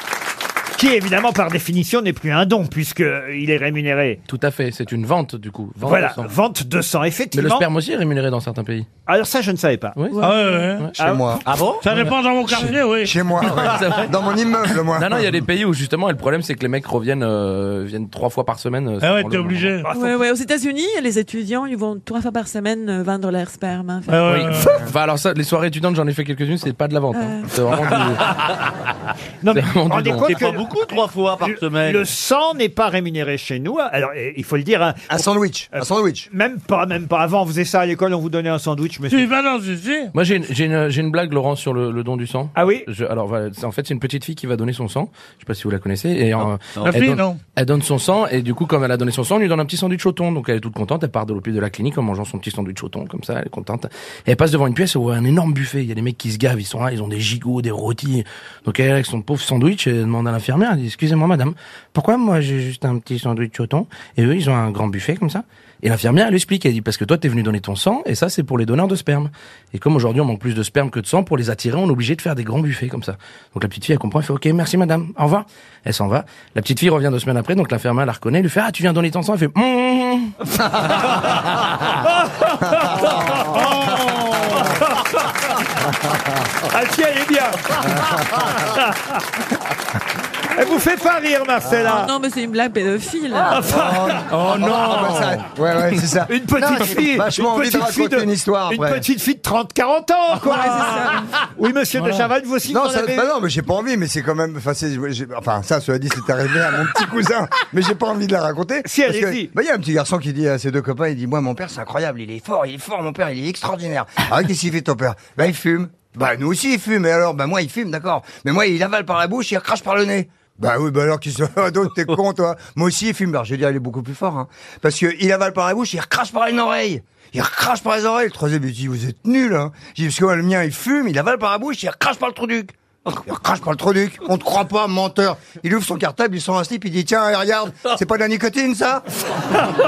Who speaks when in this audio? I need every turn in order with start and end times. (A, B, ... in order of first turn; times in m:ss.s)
0:00.8-0:04.2 A
0:04.3-0:06.3 B
0:05.8-0:07.6 A
0:07.3-0:08.9 B
0:09.1-0:10.0 A
0:10.0-0:10.9 B
0:10.2-0:10.7 C
0:10.2-0:10.9 D
0:11.0-0:11.4 A
0:11.0-0:11.4 E
0:11.8-0:13.7 D
0:13.0-0:15.2 E
0:13.5-0:14.1 B
0:14.9-0:19.8 B
0:19.0-0:19.9 D
0:19.8-0:20.1 A
0:19.9-0:24.3 C
0:24.1-0:24.8 D
0:24.3-0:28.2 B
0:27.1-0:27.5 C
0:29.4-0:30.8 A
0:29.5-0:30.3 B
0:31.4-0:35.0 A
0:35.1-0:36.3 E
0:35.7-0:39.3 A
0:39.1-0:40.1 D
0:40.1-1:20.3 B
0:42.5-0:42.8 A
0:46.8-0:47.4 D
1:22.0-1:25.0 A
1:26.7-1:28.9 A
1:30.5-1:32.1 A
1:31.8-1:33.8 C
1:33.5-1:34.5 A
1:33.6-1:39.0 E
1:36.3-1:43.3 A
1:40.4-1:41.3 C
1:42.7-2:19.0 E
1:48.8-1:49.5 A